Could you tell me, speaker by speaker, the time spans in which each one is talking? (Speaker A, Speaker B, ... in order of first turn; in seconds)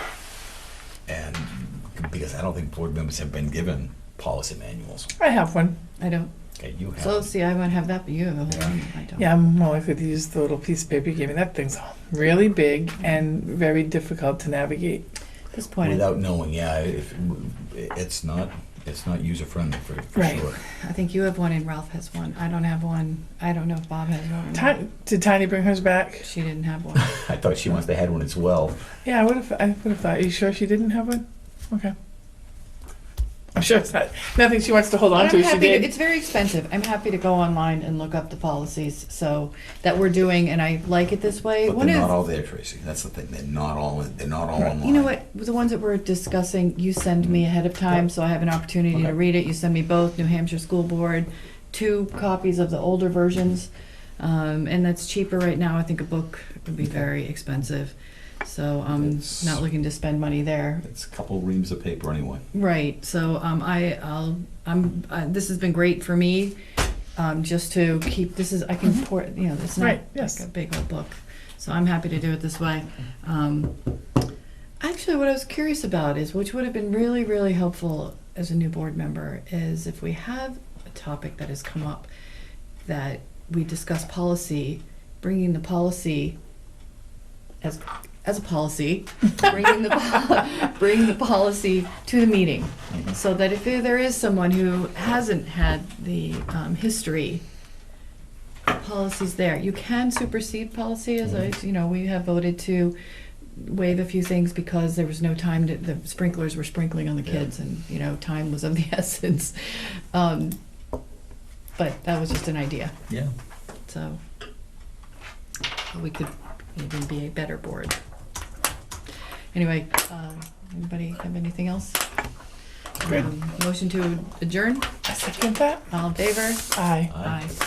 Speaker A: 1.1-5.1, 6.6-7.3, 15.8-20.6, 27.0-28.9, 41.6-45.1, 59.0-59.6, 60.8-62.4, 127.1-127.4
Speaker B: 5.2-5.7, 9.2-15.0, 20.1-20.4, 24.5-26.3, 29.0-31.9, 33.5-35.9, 69.8-70.4, 125.0-125.9, 126.7-127.1
Speaker C: 6.0-6.3, 7.0-9.3, 15.5-16.0, 20.6-24.8, 26.2-27.2, 35.1-42.1, 44.8-53.7, 54.2-60.8, 62.5-66.6, 67.2-73.8, 74.8-82.1, 82.8-86.3, 87.6-97.4, 98.7-103.0, 103.5-110.6, 111.8-113.0, 113.8-114.2, 115.9-118.0, 119.5-122.0, 123.0-124.9, 125.9-127.5